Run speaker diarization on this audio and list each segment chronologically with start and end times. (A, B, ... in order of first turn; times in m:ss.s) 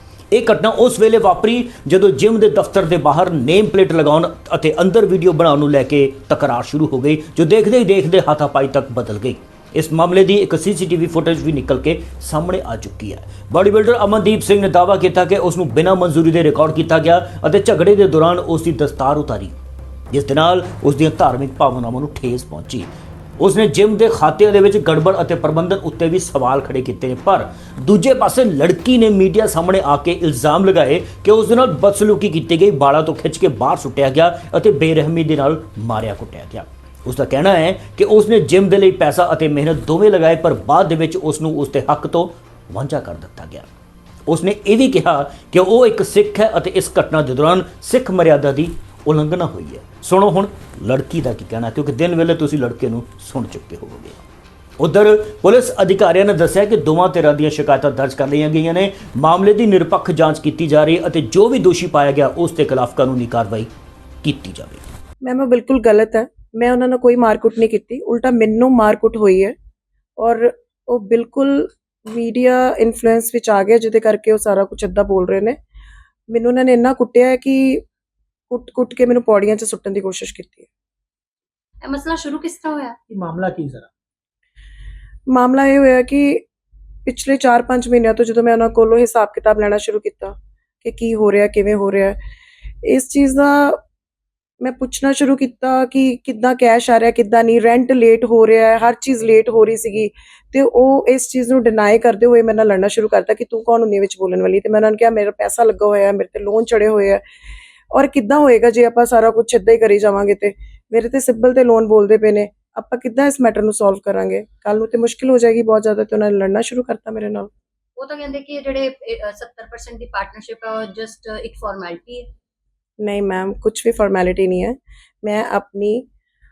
0:00.3-0:19.5 A
0:20.1-0:22.9 A
0:23.4-0:43.7 A
0:44.3-0:54.2 A
0:54.8-1:03.7 A
1:04.2-1:04.8 A
1:05.2-1:09.5 B
1:10.2-1:15.6 B
1:16.3-1:17.8 B
1:18.5-1:20.7 B
1:21.8-1:23.0 C
1:25.3-1:26.4 B
1:27.0-1:32.2 B
1:32.8-1:33.8 B
1:34.6-1:47.2 B
1:47.9-1:57.5 B
1:58.0-2:02.3 C
2:03.0-2:06.0 B